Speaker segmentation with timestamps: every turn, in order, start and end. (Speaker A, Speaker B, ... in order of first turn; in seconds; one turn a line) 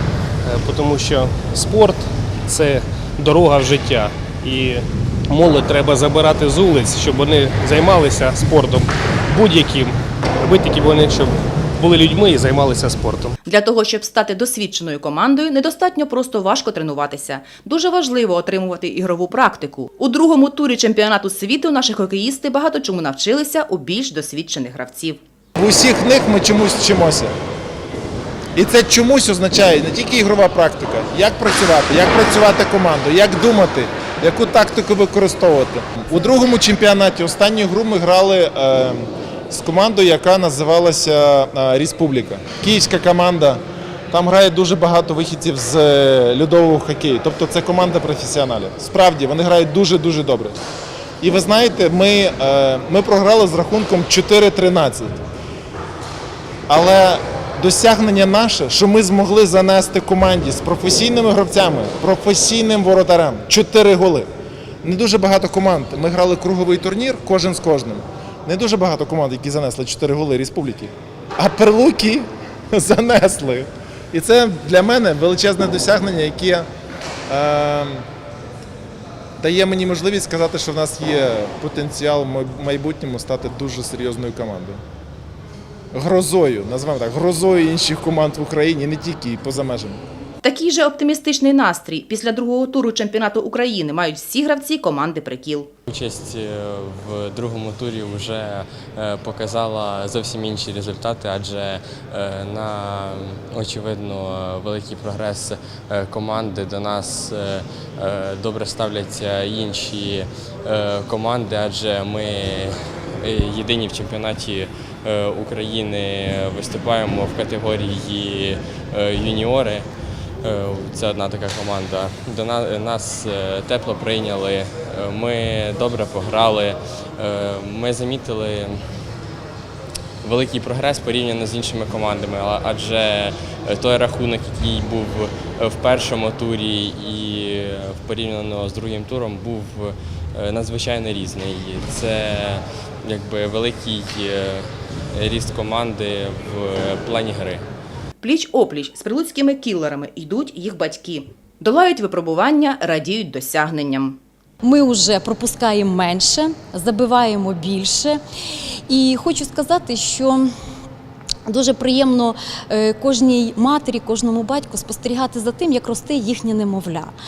Speaker A: 0.4-13.3
Speaker B: 13.4-25.2
Speaker C: 25.6-27.3
Speaker C: 28.6-50.6
Speaker C: 51.2-55.2
Speaker C: 56.7-64.3
Speaker C: 64.8-76.7
Speaker C: 77.3-78.0
Speaker C: 79.4-84.8
Speaker C: 85.9-90.0
Speaker B: 90.4-95.7
Speaker D: 95.9-119.9
Speaker D: 120.4-128.8
Speaker D: 130.2-147.6
Speaker B: 148.2-154.2
Speaker E: 154.6-158.2
Speaker E: 158.9-160.5
Speaker E: 161.5-167.1